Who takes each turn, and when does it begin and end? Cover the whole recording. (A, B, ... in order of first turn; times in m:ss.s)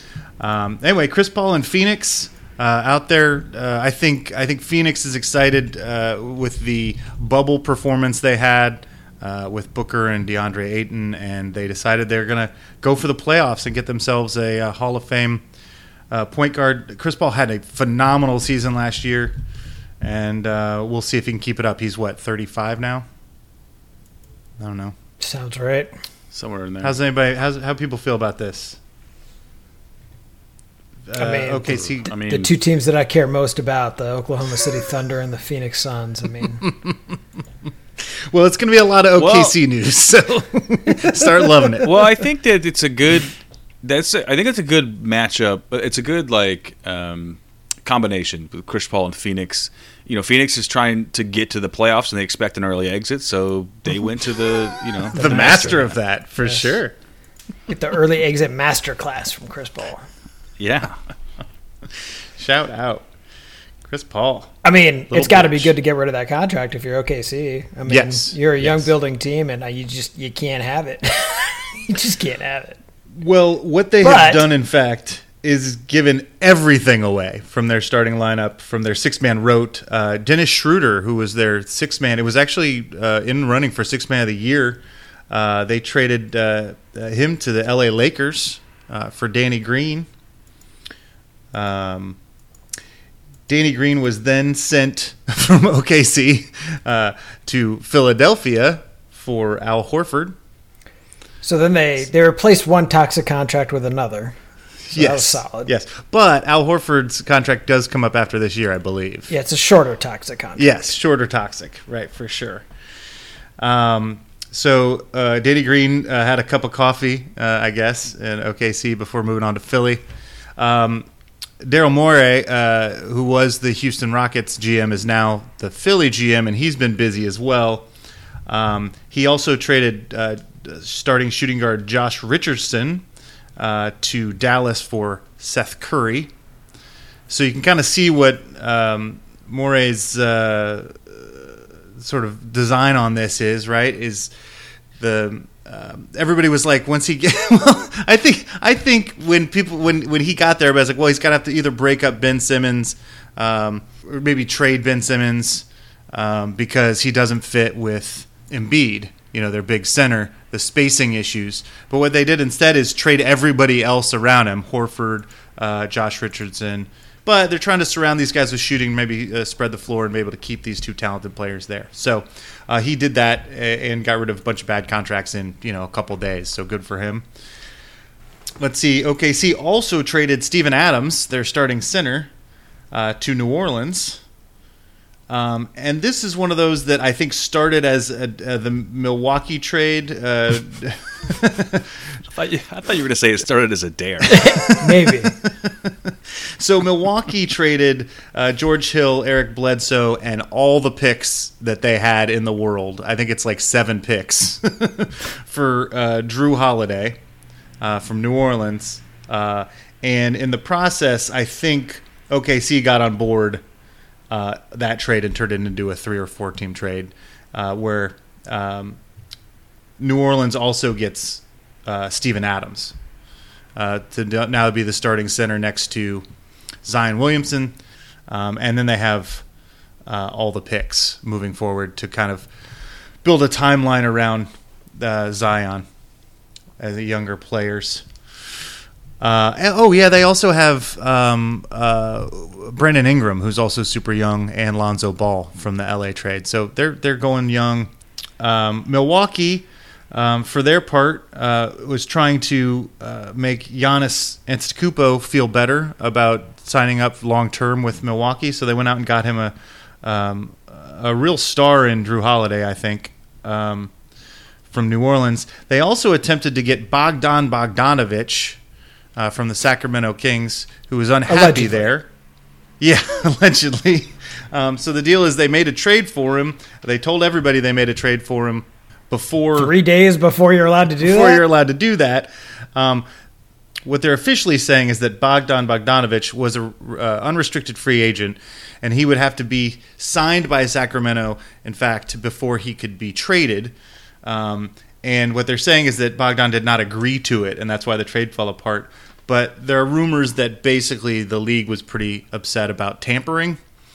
0:00.4-0:15.4 A
0:16.1-0:19.3 A
0:20.0-0:23.0 A
0:24.6-0:24.9 A
0:25.2-0:25.9 B
0:26.3-0:27.0 C
0:26.8-0:28.8 A
0:31.1-0:32.1 A
0:31.1-0:36.6 B
0:31.9-0:32.5 C
0:38.0-0:41.9 A
0:39.1-0:39.6 C
0:41.8-0:56.0 C
0:55.1-0:56.9 A
0:55.2-0:55.8 B
0:57.7-1:00.0 B
1:00.6-1:01.0 C
1:02.4-1:03.0 A
1:03.9-1:04.5 A
1:04.6-1:12.8 B
1:05.1-1:05.7 A
1:07.9-1:08.9 A
1:13.2-1:30.1 A
1:14.0-1:14.5 B
1:31.5-1:32.2 A
1:33.5-1:40.3 A
1:41.4-1:44.4 B
1:44.9-1:49.3 A
1:44.9-1:45.7 B
1:49.3-1:50.8 B
1:50.6-1:52.6 A
1:53.6-2:00.0 A
2:00.6-2:01.1 A
2:01.6-2:07.9 A
2:08.5-2:13.0 A
2:13.6-2:16.3 A
2:17.3-2:24.3 A
2:25.0-2:57.2 A
2:58.6-3:02.3 A
3:02.9-3:04.2 A
3:05.3-3:11.8 A
3:12.3-3:14.6 C
3:14.3-3:15.4 B
3:15.6-3:27.2 A
3:27.8-3:33.6 A
3:34.3-3:39.0 A
3:40.0-3:42.9 A
3:43.8-3:46.2 A
3:46.8-3:47.7 A
3:48.3-3:49.4 A
3:50.0-3:52.5 A
3:53.2-3:55.8 A
3:56.8-3:58.0 A
3:59.2-4:23.9 A
4:24.7-4:28.6 A
4:29.2-4:32.1 A
4:31.3-4:31.9 B
4:32.8-4:39.7 A
4:39.6-4:41.4 B
4:41.0-4:43.0 A
4:43.8-5:03.6 A